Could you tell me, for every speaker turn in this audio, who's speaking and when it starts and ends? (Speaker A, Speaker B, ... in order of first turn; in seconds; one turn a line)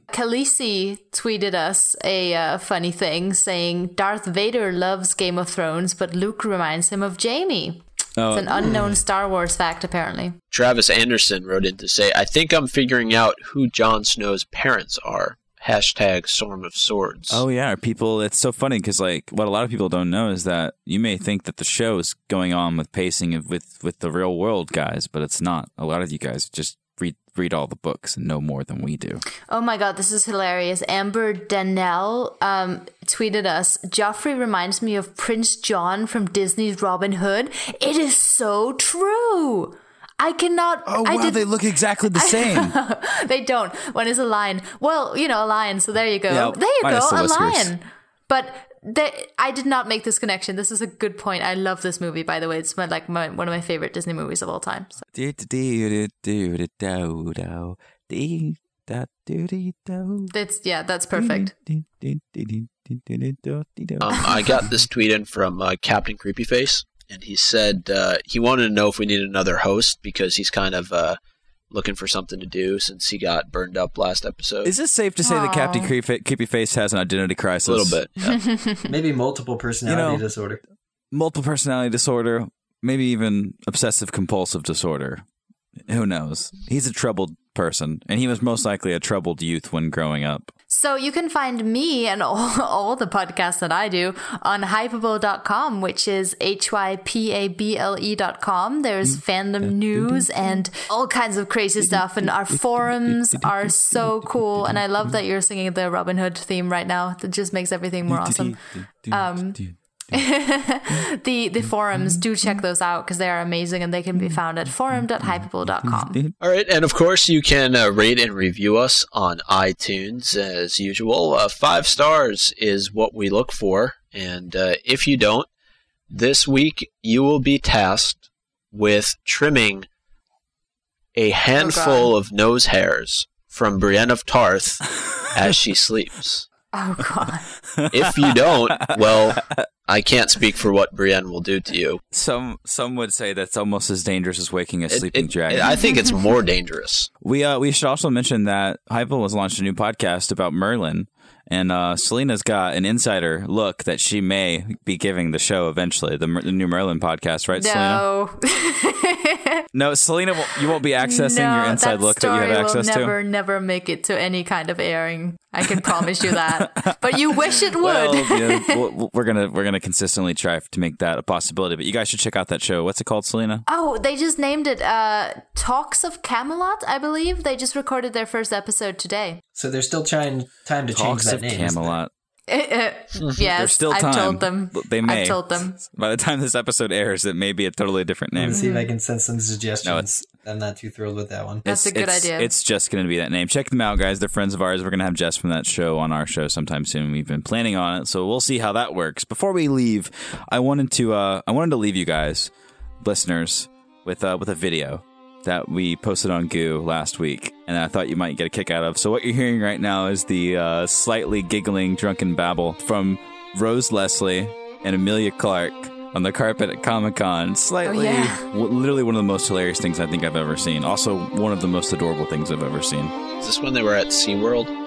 Speaker A: 0.1-10.4
Speaker B: 8.2-8.9
Speaker C: 10.5-17.4
Speaker B: 17.3-29.2
Speaker A: 29.5-41.5
Speaker B: 40.9-42.7
Speaker A: 42.1-55.0
Speaker B: 46.3-47.7
Speaker B: 55.1-60.3
Speaker A: 60.3-61.5
Speaker B: 61.1-64.7
Speaker C: 64.0-71.2
Speaker C: 71.7-74.7
Speaker B: 74.6-78.0
Speaker A: 75.2-75.9
Speaker C: 77.7-78.4
Speaker A: 78.3-78.8
Speaker D: 78.9-80.6
Speaker B: 79.8-80.2
Speaker B: 81.1-85.2
Speaker B: 85.9-90.5
Speaker A: 90.7-116.2
Speaker B: 99.1-100.6
Speaker B: 101.9-104.0
Speaker B: 108.1-109.8
Speaker B: 111.9-112.6
Speaker B: 114.2-116.3
Speaker C: 116.4-125.5
Speaker C: 126.1-129.8
Speaker C: 131.1-136.5
Speaker A: 131.6-132.1
Speaker A: 136.7-137.4
Speaker B: 137.8-139.6
Speaker C: 137.9-142.0
Speaker B: 142.1-145.7
Speaker C: 144.9-147.1
Speaker A: 145.7-146.0
Speaker B: 147.2-158.0
Speaker A: 157.6-159.6
Speaker B: 159.7-163.1
Speaker A: 161.0-168.8
Speaker B: 165.9-173.6
Speaker A: 173.7-179.4
Speaker D: 179.5-182.0
Speaker B: 180.9-182.1
Speaker A: 182.5-185.8
Speaker B: 183.4-188.6
Speaker D: 188.3-191.6
Speaker A: 188.4-188.9
Speaker B: 191.6-202.5
Speaker A: 191.6-192.5
Speaker B: 203.0-223.1
Speaker A: 217.8-218.4
Speaker C: 223.4-224.7